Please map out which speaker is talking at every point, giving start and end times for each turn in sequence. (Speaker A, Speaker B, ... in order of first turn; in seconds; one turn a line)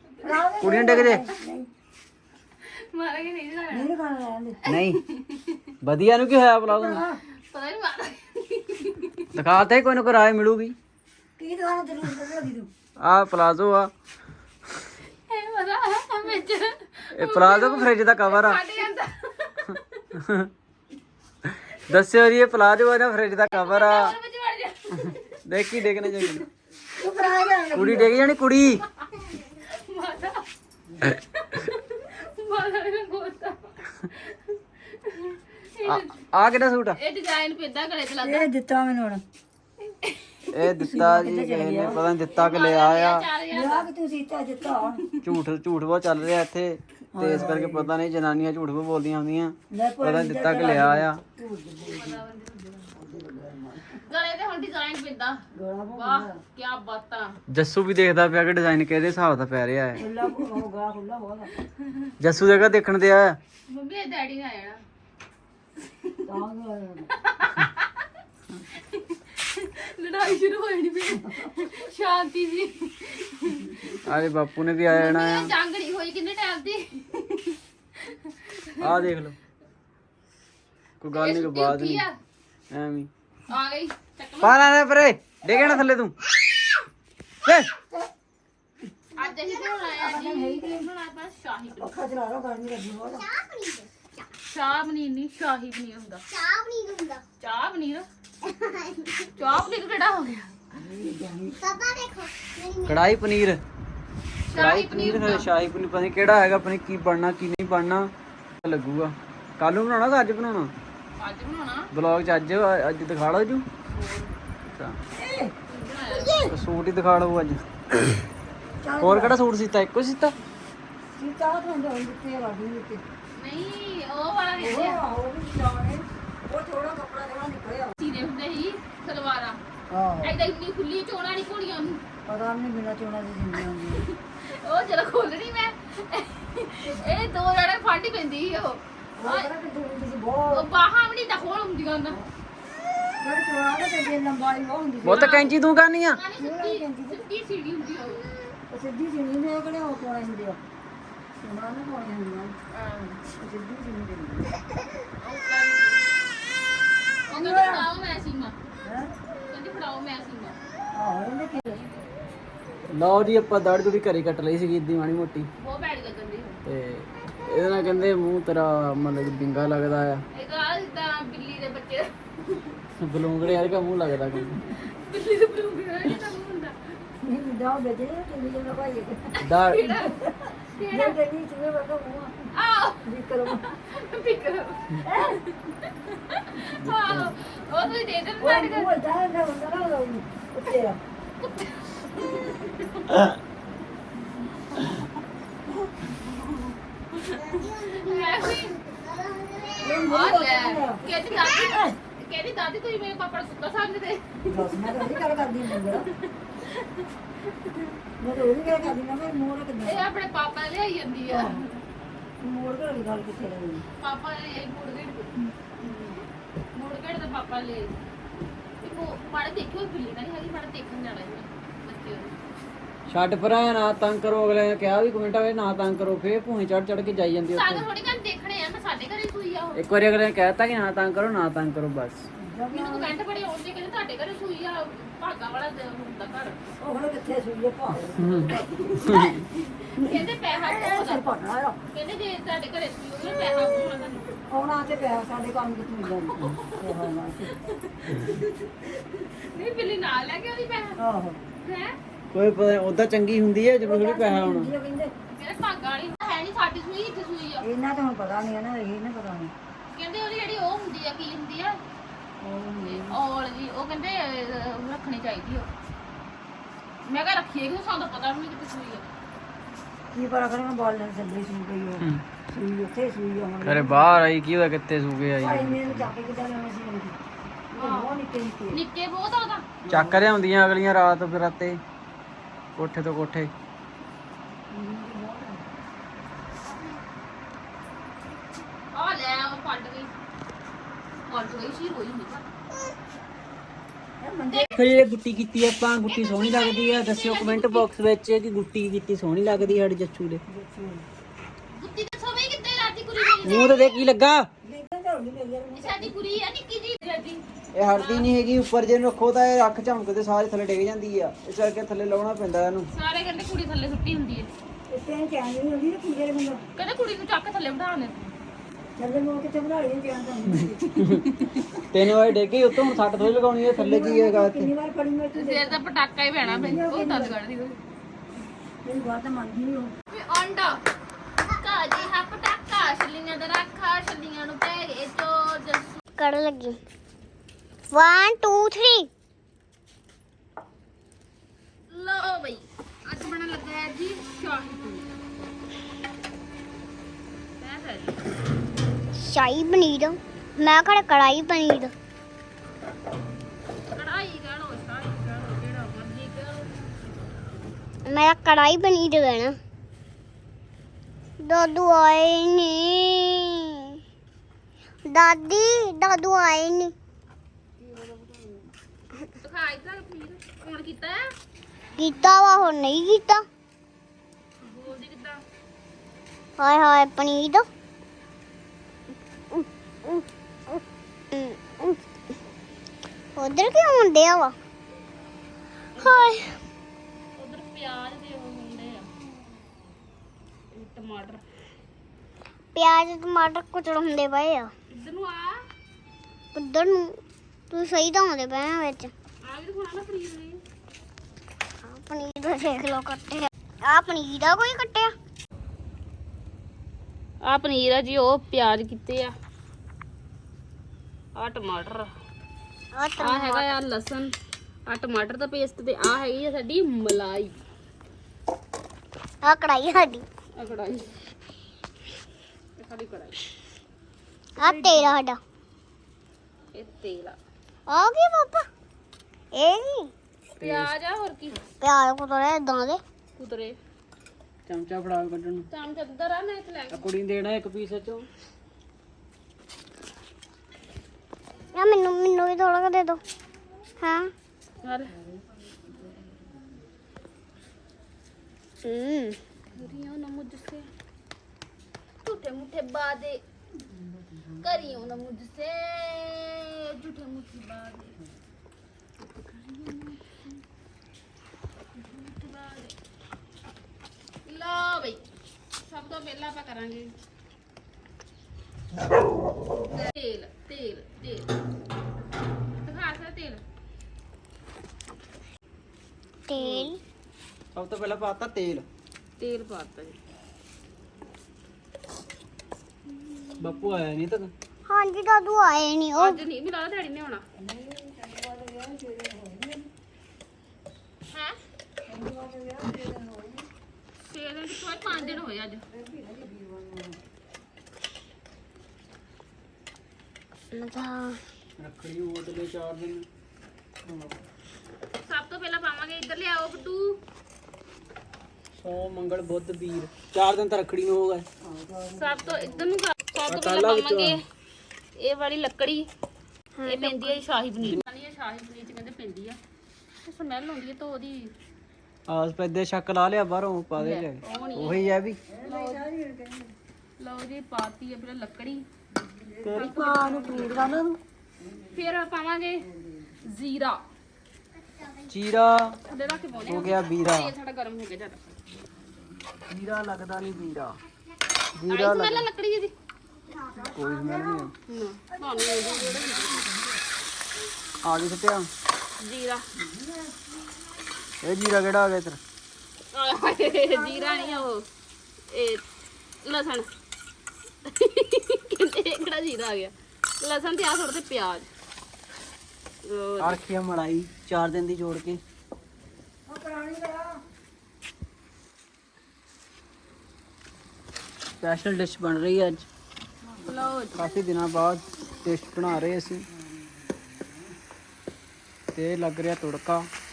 Speaker A: 0.2-1.4
Speaker B: 0.2-1.7
Speaker C: 0.6-1.3
Speaker A: 2.6-3.9
Speaker B: 3.7-4.6
Speaker C: 4.7-5.0
Speaker A: 4.7-5.6
Speaker C: 5.8-7.0
Speaker B: 6.7-7.2
Speaker A: 7.5-9.3
Speaker C: 9.3-10.8
Speaker B: 11.4-12.7
Speaker C: 13.0-13.9
Speaker A: 15.3-20.1
Speaker C: 17.1-18.6
Speaker C: 20.1-20.5
Speaker C: 21.4-24.1
Speaker A: 23.5-25.4
Speaker C: 25.4-26.5
Speaker A: 26.0-26.4
Speaker B: 27.0-28.1
Speaker C: 27.8-28.8
Speaker A: 29.2-30.4
Speaker A: 31.0-36.2
Speaker C: 35.9-37.0
Speaker A: 37.0-38.5
Speaker B: 38.2-39.2
Speaker C: 40.5-43.3
Speaker B: 40.5-42.1
Speaker A: 42.3-43.9
Speaker B: 43.5-45.0
Speaker A: 44.9-45.2
Speaker C: 45.2-51.2
Speaker B: 47.1-47.9
Speaker B: 49.7-52.2
Speaker A: 51.9-53.0
Speaker B: 52.9-54.0
Speaker A: 54.0-57.4
Speaker B: 55.5-56.4
Speaker C: 57.5-60.0
Speaker B: 60.0-61.5
Speaker A: 61.8-62.1
Speaker C: 62.2-63.4
Speaker A: 63.7-64.8
Speaker A: 65.9-66.2
Speaker B: 66.2-67.1
Speaker A: 67.1-67.9
Speaker A: 68.9-74.0
Speaker B: 71.2-71.5
Speaker C: 74.0-75.5
Speaker A: 74.9-79.1
Speaker C: 78.8-79.3
Speaker C: 81.0-82.1
Speaker A: 81.1-82.2
Speaker C: 82.7-83.1
Speaker A: 83.5-84.7
Speaker C: 84.4-86.2
Speaker C: 87.4-87.7
Speaker A: 89.2-92.0
Speaker D: 89.2-89.9
Speaker B: 90.0-90.9
Speaker B: 91.8-93.2
Speaker D: 93.1-94.3
Speaker A: 94.5-96.2
Speaker D: 96.3-97.2
Speaker A: 97.4-98.1
Speaker D: 98.4-99.4
Speaker A: 99.3-100.5
Speaker B: 100.7-101.6
Speaker D: 101.6-103.1
Speaker C: 102.8-103.6
Speaker A: 104.5-105.5
Speaker C: 104.5-108.1
Speaker C: 108.6-110.7
Speaker A: 111.2-111.9
Speaker C: 111.9-113.7
Speaker A: 113.9-114.3
Speaker C: 114.7-115.0
Speaker B: 115.1-115.5
Speaker A: 115.7-116.5
Speaker D: 116.0-116.5
Speaker C: 116.5-117.6
Speaker B: 118.8-119.4
Speaker C: 119.0-120.3
Speaker B: 121.2-123.0
Speaker A: 123.4-125.0
Speaker B: 124.6-128.0
Speaker A: 128.0-129.6
Speaker B: 129.9-130.3
Speaker A: 130.2-132.0
Speaker B: 132.2-134.0
Speaker A: 133.9-139.5
Speaker B: 136.8-137.3
Speaker B: 139.2-140.7
Speaker A: 140.5-142.2
Speaker B: 143.2-145.3
Speaker C: 145.0-146.2
Speaker A: 145.1-145.6
Speaker A: 146.1-148.3
Speaker B: 146.4-147.2
Speaker B: 148.7-150.6
Speaker B: 151.4-152.6
Speaker A: 152.7-153.2
Speaker B: 153.3-154.5
Speaker A: 155.2-156.0
Speaker A: 157.3-158.6
Speaker B: 157.3-157.9
Speaker B: 158.8-159.1
Speaker A: 159.5-160.6
Speaker B: 160.9-161.8
Speaker A: 161.7-162.1
Speaker C: 162.9-165.5
Speaker A: 165.6-166.6
Speaker C: 166.7-170.2
Speaker A: 170.3-172.8
Speaker C: 173.0-174.7
Speaker A: 174.3-176.8
Speaker B: 177.2-179.4
Speaker A: 179.3-181.2
Speaker C: 179.4-179.8
Speaker B: 179.9-183.7
Speaker A: 182.5-188.9
Speaker B: 185.0-185.4
Speaker C: 186.8-187.3
Speaker B: 188.4-191.0
Speaker A: 191.4-193.3
Speaker A: 197.1-198.8
Speaker D: 197.3-200.1
Speaker B: 199.8-201.9
Speaker A: 200.0-205.1
Speaker B: 204.5-206.1
Speaker A: 205.8-207.9
Speaker B: 208.2-210.1
Speaker A: 209.8-211.8
Speaker B: 211.3-211.6
Speaker B: 212.4-213.8
Speaker A: 214.0-215.4
Speaker A: 216.7-217.9
Speaker A: 218.8-222.3
Speaker C: 223.1-227.9
Speaker A: 227.5-229.8
Speaker C: 229.8-232.2
Speaker B: 232.4-233.2
Speaker A: 232.7-236.7
Speaker B: 236.8-238.9
Speaker C: 238.2-239.5
Speaker A: 238.7-241.3
Speaker B: 240.0-241.8
Speaker A: 241.9-244.3
Speaker B: 244.5-247.6
Speaker A: 246.3-251.0
Speaker B: 251.0-251.4
Speaker A: 251.6-252.0
Speaker C: 252.3-254.7
Speaker B: 253.8-255.1
Speaker A: 255.3-257.6
Speaker B: 257.6-259.5
Speaker A: 259.9-261.8
Speaker B: 262.4-263.2
Speaker A: 262.8-265.7
Speaker A: 267.1-269.1
Speaker B: 270.1-274.1
Speaker C: 273.6-276.1
Speaker B: 275.4-277.2
Speaker B: 277.7-278.8
Speaker A: 277.8-278.1
Speaker A: 278.7-279.6
Speaker B: 279.9-280.3
Speaker C: 279.9-281.8
Speaker C: 282.8-283.5
Speaker B: 284.7-285.6
Speaker A: 288.9-290.1
Speaker A: 291.2-292.4
Speaker B: 294.2-294.7
Speaker C: 294.7-300.4
Speaker A: 296.1-297.9
Speaker B: 300.5-301.1
Speaker A: 301.7-304.0
Speaker C: 303.4-304.5
Speaker B: 304.6-306.1
Speaker A: 305.7-308.3
Speaker C: 307.7-312.9
Speaker A: 312.9-314.5
Speaker B: 314.9-316.6
Speaker A: 316.8-318.3
Speaker B: 319.0-321.2
Speaker A: 321.0-321.8
Speaker C: 321.0-321.2
Speaker C: 321.9-324.7
Speaker B: 323.5-325.8
Speaker A: 325.4-327.8
Speaker B: 326.5-327.4
Speaker B: 328.8-329.9
Speaker A: 330.1-330.8
Speaker A: 331.5-336.0
Speaker D: 336.2-336.8
Speaker D: 337.9-339.1
Speaker A: 341.9-345.1
Speaker A: 347.6-348.2
Speaker D: 349.2-351.9
Speaker A: 353.9-356.9
Speaker D: 358.1-359.6
Speaker D: 361.4-364.0
Speaker D: 365.1-366.9
Speaker A: 367.8-368.7
Speaker A: 369.4-371.3
Speaker D: 372.0-373.4
Speaker A: 372.1-372.5
Speaker A: 374.6-375.4
Speaker D: 376.6-377.7
Speaker D: 379.5-380.8
Speaker D: 381.3-382.0
Speaker D: 383.4-384.6
Speaker A: 386.0-386.3
Speaker D: 386.0-386.6
Speaker A: 387.4-389.1
Speaker A: 390.7-391.4
Speaker D: 392.8-394.7
Speaker A: 394.9-395.6
Speaker D: 396.5-397.2
Speaker D: 397.7-399.1
Speaker A: 399.4-400.6
Speaker D: 401.8-405.1
Speaker A: 407.4-409.3
Speaker A: 411.4-412.1
Speaker D: 412.9-413.7
Speaker A: 413.2-414.3
Speaker A: 414.9-417.6
Speaker D: 419.4-420.3
Speaker A: 420.6-421.1
Speaker A: 422.8-423.4
Speaker D: 424.6-425.4
Speaker A: 424.6-425.1
Speaker A: 426.7-427.4
Speaker D: 427.9-428.7
Speaker D: 429.5-430.1
Speaker C: 430.6-430.9
Speaker A: 430.6-431.6
Speaker D: 431.8-433.0
Speaker A: 433.4-433.8
Speaker C: 434.7-435.7
Speaker A: 435.7-437.1
Speaker C: 436.9-438.3
Speaker D: 441.7-443.2
Speaker D: 444.0-444.3
Speaker A: 444.8-445.1
Speaker D: 448.8-449.4
Speaker A: 449.7-450.9
Speaker A: 452.2-453.4
Speaker A: 454.6-458.2
Speaker A: 459.2-460.6
Speaker A: 462.0-462.9
Speaker A: 464.4-465.2
Speaker A: 465.9-467.1
Speaker A: 469.8-471.5
Speaker A: 472.8-473.6
Speaker D: 476.5-477.0
Speaker A: 476.6-476.9
Speaker C: 477.7-478.9
Speaker A: 479.4-480.2
Speaker C: 483.6-484.5
Speaker D: 484.9-486.4
Speaker A: 486.1-487.4
Speaker B: 487.6-489.9
Speaker A: 491.3-491.6
Speaker B: 492.1-493.7
Speaker A: 494.3-495.8
Speaker B: 495.1-497.2
Speaker D: 500.7-501.4
Speaker C: 501.8-503.3
Speaker A: 505.2-507.2
Speaker C: 508.8-511.5
Speaker B: 511.6-512.9
Speaker A: 512.1-514.4
Speaker C: 513.5-514.4
Speaker A: 515.2-516.1
Speaker D: 516.8-517.4
Speaker A: 516.9-519.6
Speaker A: 520.2-521.5
Speaker C: 522.3-525.4
Speaker A: 524.0-526.1
Speaker B: 525.5-526.7
Speaker A: 527.2-528.9
Speaker B: 529.2-530.8
Speaker C: 529.6-531.2
Speaker A: 529.8-530.8
Speaker A: 531.9-532.9
Speaker B: 533.0-533.3
Speaker A: 533.5-534.0
Speaker D: 534.9-535.2
Speaker C: 535.3-536.0
Speaker A: 536.1-538.5
Speaker C: 536.7-537.5
Speaker C: 539.7-541.0
Speaker C: 541.8-542.5
Speaker A: 541.9-542.9
Speaker B: 543.5-544.7
Speaker C: 543.9-544.7
Speaker A: 544.9-546.7
Speaker B: 545.3-547.0
Speaker C: 548.0-548.7
Speaker A: 549.2-549.7
Speaker B: 549.8-550.4
Speaker C: 551.4-552.4
Speaker A: 553.1-554.9
Speaker B: 553.6-554.7
Speaker A: 555.5-555.8
Speaker A: 556.4-556.9
Speaker A: 557.9-561.7
Speaker A: 563.0-563.6
Speaker C: 563.4-565.4
Speaker B: 566.5-567.4
Speaker C: 571.6-572.9
Speaker A: 573.7-574.2
Speaker C: 574.1-576.5
Speaker B: 576.6-577.2
Speaker C: 579.0-580.1